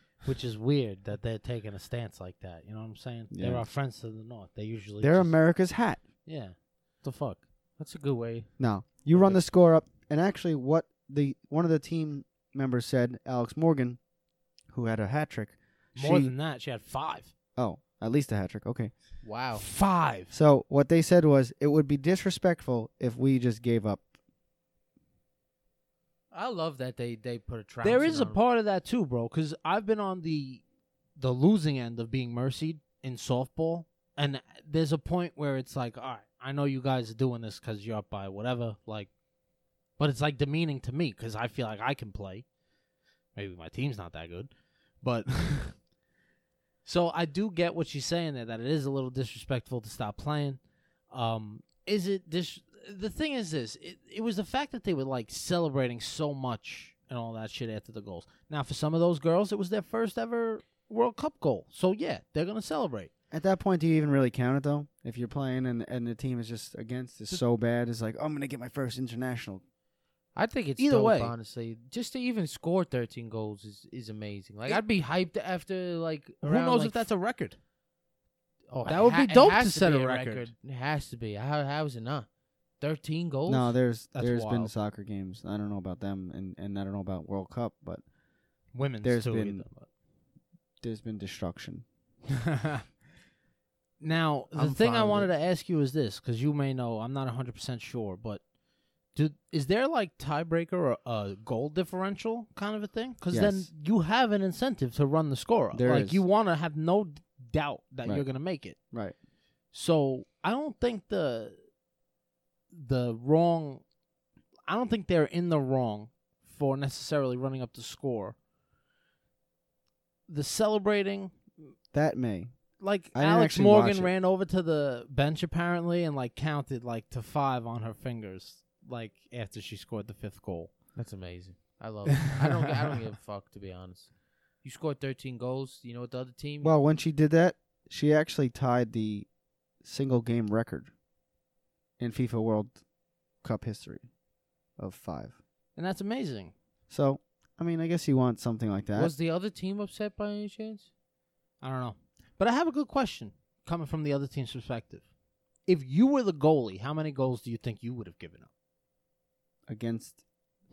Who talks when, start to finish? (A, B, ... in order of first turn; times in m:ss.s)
0:00.2-0:05.5 A
0:03.3-0:03.7 B
0:05.0-0:06.0 B
0:06.2-0:07.4 A
0:07.8-0:09.4 C
0:08.6-0:14.0 B
0:14.7-0:16.3 B
0:15.9-0:17.3 A
0:17.6-0:18.9 B
0:19.2-0:19.6 C
0:19.5-0:20.3 A
0:20.3-0:24.1 B
0:26.3-0:28.4 C
0:27.8-0:30.6 A
0:31.2-0:39.1 A
0:40.0-0:42.4 A
0:43.3-0:45.9 A
0:46.8-1:03.1 A
1:03.3-1:09.6 B
1:10.3-1:17.1 C
1:10.8-1:11.3 A
1:16.4-1:17.6 A
1:18.7-1:23.8 C
1:18.9-1:20.5 A
1:23.5-1:28.0 B
1:24.1-1:24.7 A
1:28.7-1:29.9 A
1:29.0-1:29.7 B
1:30.8-1:31.8 B
1:34.0-1:38.4 A
1:34.5-1:35.3 C
1:39.1-1:48.8 A
1:43.3-1:43.7 B
1:45.7-1:46.2 B
1:48.0-1:49.2 B
1:49.7-1:51.6 A
1:52.7-1:53.8 A
1:54.7-1:58.4 A
2:00.3-2:01.7 A
2:01.9-2:04.1 B
2:02.8-2:10.7 A
2:10.9-2:16.8 C
2:16.6-2:20.9 B
2:22.0-2:22.8 B
2:23.4-2:24.1 B
2:24.8-2:25.4 B
2:25.8-2:26.5 A
2:26.9-2:29.1 B
2:28.9-2:30.9 C
2:31.6-2:35.1 A
2:35.6-2:38.5 A
2:39.7-2:40.2 B